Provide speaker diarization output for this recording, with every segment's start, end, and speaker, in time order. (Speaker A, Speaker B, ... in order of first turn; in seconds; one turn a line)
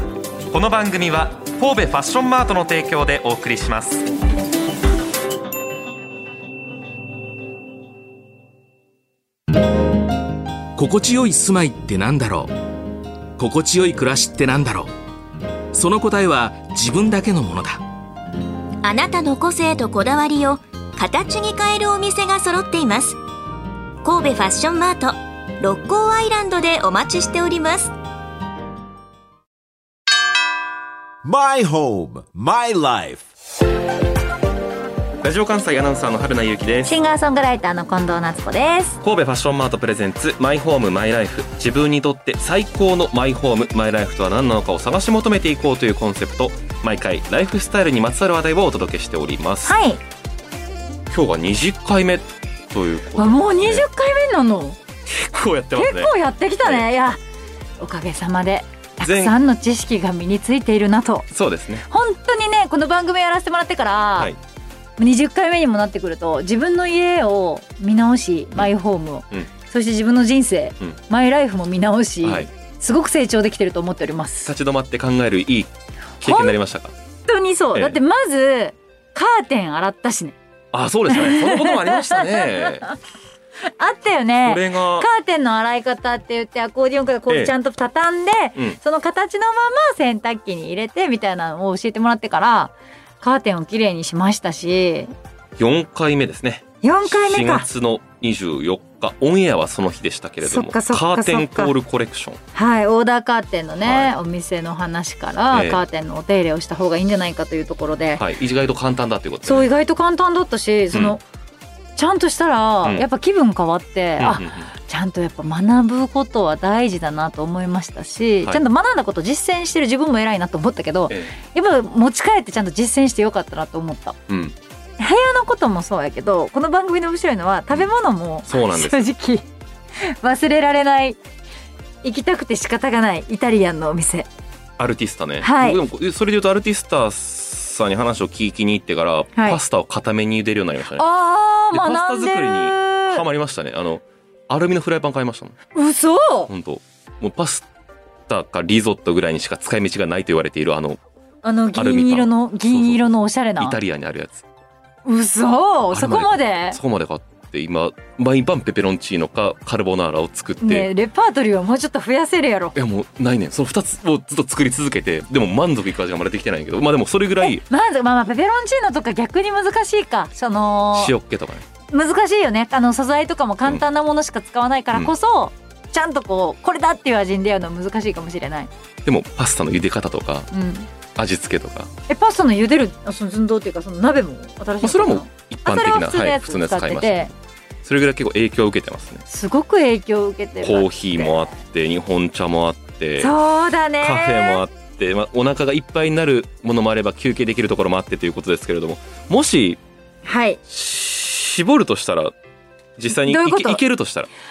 Speaker A: 0.5-4.1
Speaker B: 10.8-12.5
Speaker B: 13.4-14.9
Speaker B: 15.7-17.8
Speaker C: 18.8-23.2
Speaker C: 24.0-27.9
Speaker D: 31.2-33.2
Speaker A: 35.2-37.0
Speaker E: 36.9-39.0
Speaker A: 39.0-49.8
Speaker E: 49.6-50.0
Speaker A: 51.1-53.9
Speaker E: 53.2-54.8
Speaker A: 55.1-56.9
Speaker E: 55.8-57.2
Speaker E: 57.8-61.3
Speaker A: 59.0-59.3
Speaker A: 61.3-61.9
Speaker E: 61.9-64.3
Speaker E: 65.0-74.5
Speaker A: 72.2-72.5
Speaker A: 74.5-76.9
Speaker E: 76.2-76.6
Speaker E: 77.3-80.4
Speaker A: 80.7-82.9
Speaker E: 81.1-82.9
Speaker E: 83.8-95.1
Speaker A: 84.4-85.1
Speaker A: 95.6-102.4
Speaker E: 96.8-97.7
Speaker E: 100.4-101.7
Speaker E: 102.5-108.2
Speaker A: 103.8-104.1
Speaker A: 105.5-105.8
Speaker A: 108.2-109.7
Speaker E: 109.5-111.2
Speaker E: 112.0-124.2
Speaker A: 114.2-114.7
Speaker A: 121.1-121.3
Speaker A: 124.3-124.5
Speaker E: 125.0-129.5
Speaker A: 128.5-129.1
Speaker E: 130.0-131.2
Speaker E: 132.0-134.3
Speaker A: 134.8-141.1
Speaker E: 135.4-135.8
Speaker E: 139.4-139.6
Speaker E: 141.0-143.2
Speaker A: 141.7-145.6
Speaker E: 145.7-146.5
Speaker A: 146.5-147.7
Speaker A: 148.3-151.0
Speaker E: 151.4-153.8
Speaker A: 151.7-153.0
Speaker A: 153.6-154.4
Speaker E: 155.1-156.8
Speaker A: 155.9-160.9
Speaker E: 160.6-162.8
Speaker A: 162.8-167.6
Speaker E: 167.4-171.1
Speaker A: 170.9-171.7
Speaker E: 171.9-178.7
Speaker A: 179.1-180.5
Speaker E: 180.5-180.9
Speaker A: 181.2-181.9
Speaker E: 182.1-187.3
Speaker A: 184.8-187.3
Speaker A: 187.8-189.2
Speaker E: 189.3-191.4
Speaker A: 190.6-193.3
Speaker E: 193.2-194.6
Speaker A: 194.0-199.8
Speaker E: 200.2-200.6
Speaker A: 200.7-202.3
Speaker A: 203.0-204.3
Speaker E: 203.2-203.8